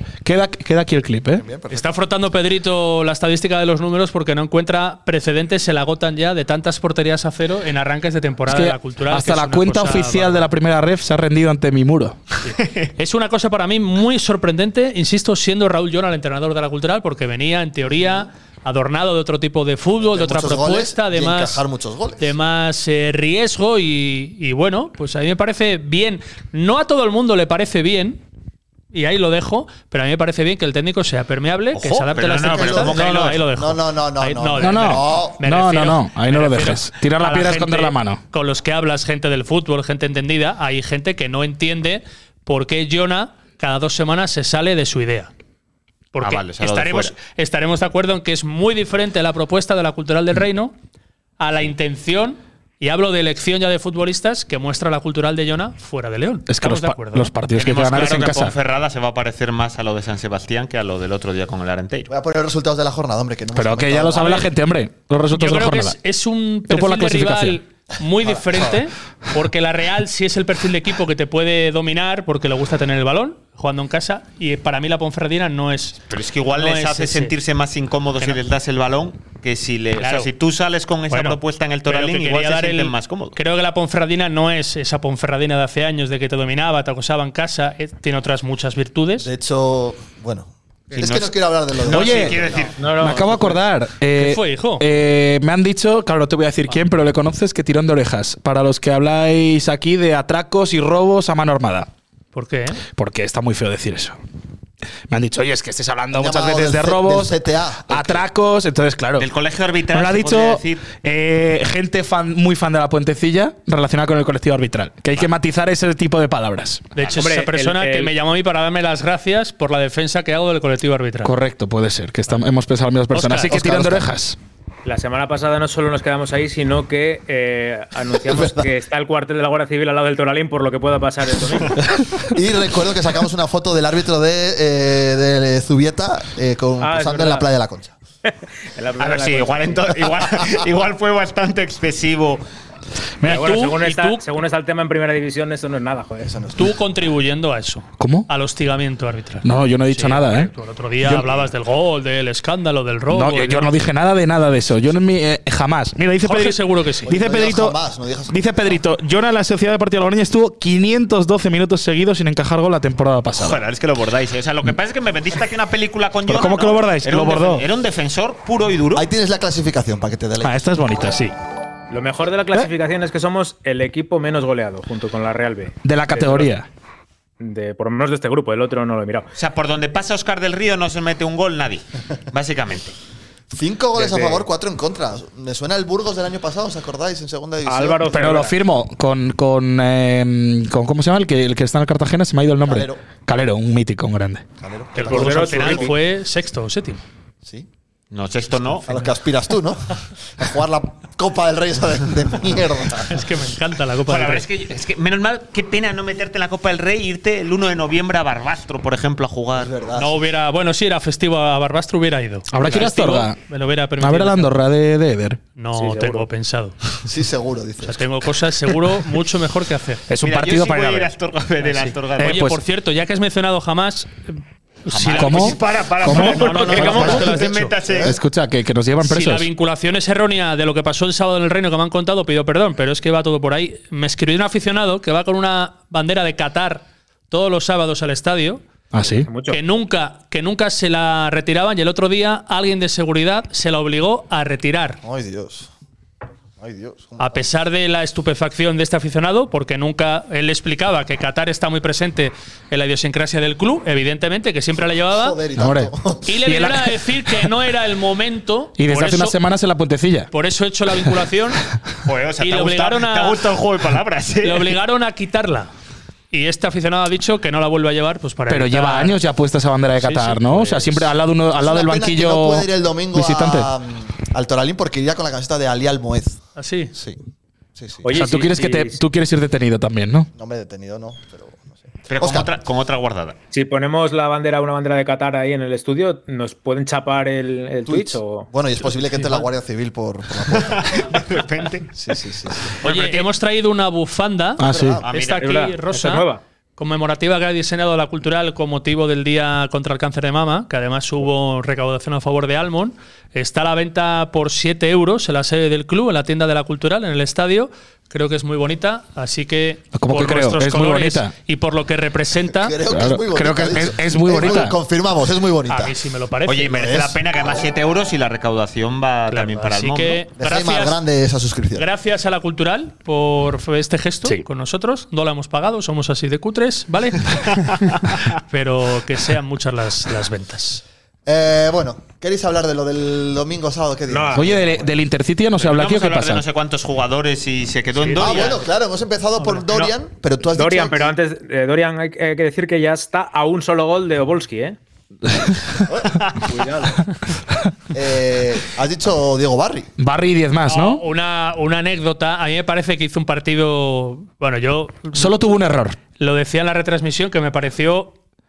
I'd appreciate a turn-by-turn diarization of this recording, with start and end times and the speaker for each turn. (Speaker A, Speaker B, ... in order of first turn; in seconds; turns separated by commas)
Speaker A: 0.2-1.4, Speaker B: 1.4-1.9, Speaker C: 1.7-10.5, Speaker A: 8.5-12.2, Speaker C: 12.5-21.6, Speaker B: 20.0-22.3, Speaker C: 22.2-28.2, Speaker C: 28.9-45.3, Speaker D: 31.7-33.5, Speaker B: 32.4-35.4, Speaker A: 34.6-38.2, Speaker C: 46.1-50.7, Speaker D: 46.2-47.1, Speaker C: 51.4-57.3, Speaker A: 56.5-58.5, Speaker D: 57.5-62.1, Speaker B: 62.1-64.5, Speaker A: 63.5-66.0, Speaker C: 64.2-64.5, Speaker C: 65.3-76.0, Speaker A: 66.7-67.6, Speaker D: 76.1-83.4, Speaker C: 76.5-77.3, Speaker C: 80.0-80.3, Speaker C: 81.1-89.3, Speaker B: 89.2-92.7, Speaker D: 90.9-92.8, Speaker A: 91.9-92.4, Speaker E: 92.8-93.6, Speaker A: 93.0-101.9, Speaker C: 94.1-94.8, Speaker C: 102.3-102.8, Speaker A: 102.9-104.2, Speaker A: 105.1-109.3, Speaker B: 106.1-108.2, Speaker D: 109.2-110.8, Speaker A: 109.9-116.9, Speaker C: 117.0-121.3, Speaker E: 117.1-118.1, Speaker A: 121.2-124.4, Speaker C: 123.1-123.5, Speaker B: 123.5-124.1, Speaker E: 124.8-131.8, Speaker B: 128.3-128.7, Speaker B: 132.2-137.9, Speaker E: 136.8-137.5, Speaker E: 138.7-139.9, Speaker D: 139.0-142.4, Speaker A: 143.2-143.5, Speaker E: 143.2-146.4, Speaker C: 143.2-144.2, Speaker B: 146.2-146.7, Speaker C: 146.6-153.7, Speaker A: 148.0-148.3, Speaker A: 149.4-151.4, Speaker A: 153.1-163.6, Speaker C: 156.2-157.1, Speaker B: 157.1-158.6, Speaker D: 163.4-169.1, Speaker A: 166.2-167.7, Speaker B: 168.9-170.7, Speaker A: 170.4-171.3, Speaker E: 171.9-176.5, Speaker A: 175.8-176.7, Speaker E: 177.4-179.3, Speaker D: 179.3-182.9, Speaker B: 183.5-188.3, Speaker E: 183.9-184.5, Speaker E: 187.6-188.6, Speaker A: 188.1-194.4, Speaker B: 192.6-193.0, Speaker B: 194.6-195.9, Speaker C: 194.9-197.0, Speaker E: 195.0-195.9, Speaker D: 198.1-198.9, Speaker B: 198.8-203.2, Speaker C: 203.1-204.4, Speaker D: 204.1-209.7, Speaker B: 209.5-210.2, Speaker C: 209.9-214.5, Speaker A: 212.5-213.4, Speaker A: 214.0-215.4, Speaker C: 215.6-216.8, Speaker E: 215.7-216.3, Speaker B: 217.0-218.1, Speaker C: 217.8-220.0, Speaker A: 220.1-221.1, Speaker D: 220.2-222.4, Speaker C: 221.7-227.7, Speaker A: 222.2-222.6, Speaker D: 224.9-228.2, Speaker A: 225.1-227.3, Speaker B: 226.7-228.2, Speaker A: 228.0-229.5, Speaker C: 229.0-238.6, Speaker A: 238.9-239.3, Speaker E: 239.2-239.6, Speaker C: 239.5-245.0, Speaker B: 245.0-245.7, Speaker B: 246.6-247.4, Speaker C: 247.2-255.3, Speaker B: 255.1-256.4, Speaker A: 255.6-257.5, Speaker C: 256.2-259.4, Speaker A: 258.8-260.3, Speaker C: 260.3-261.6, Speaker D: 262.0-264.8, Speaker C: 262.4-263.4, Speaker C: 264.4-265.7, Speaker C: 266.3-269.2, Speaker A: 268.5-273.7, Speaker C: 270.0-271.0, Speaker B: 271.6-276.4, Speaker C: 276.6-276.9, Speaker B: 277.8-278.1, Speaker E: 278.0-279.0, Speaker A: 278.1-280.3, Speaker B: 280.3-282.5, Speaker D: 282.1-283.4, Speaker E: 283.5-288.5, Speaker B: 287.9-291.2, Speaker D: 290.5-291.9, Speaker B: 292.0-292.7, Speaker D: 292.8-293.3, Speaker C: 292.8-312.8, Speaker A: 294.6-295.0, Speaker B: 294.6-295.1, Speaker D: 295.0-295.6, Speaker E: 295.4-296.4, Speaker A: 309.9-311.3, Speaker B: 312.6-315.9, Speaker A: 312.9-314.8, Speaker C: 315.7-316.9, Speaker D: 316.5-320.2, Speaker B: 316.7-317.2, Speaker C: 319.3-321.0, Speaker B: 320.4-321.9, Speaker C: 321.8-330.8, Speaker B: 331.3-334.9, Speaker E: 334.1-334.6, Speaker A: 334.3-336.4, Speaker D: 335.6-338.6, Speaker C: 337.9-338.6, Speaker B: 338.2-341.1, Speaker E: 340.5-344.8, Speaker B: 345.9-346.7, Speaker E: 346.4-347.0, Speaker B: 347.9-349.9, Speaker A: 350.0-351.0, Speaker C: 350.7-355.4, Speaker A: 355.1-356.0, Speaker C: 356.2-358.1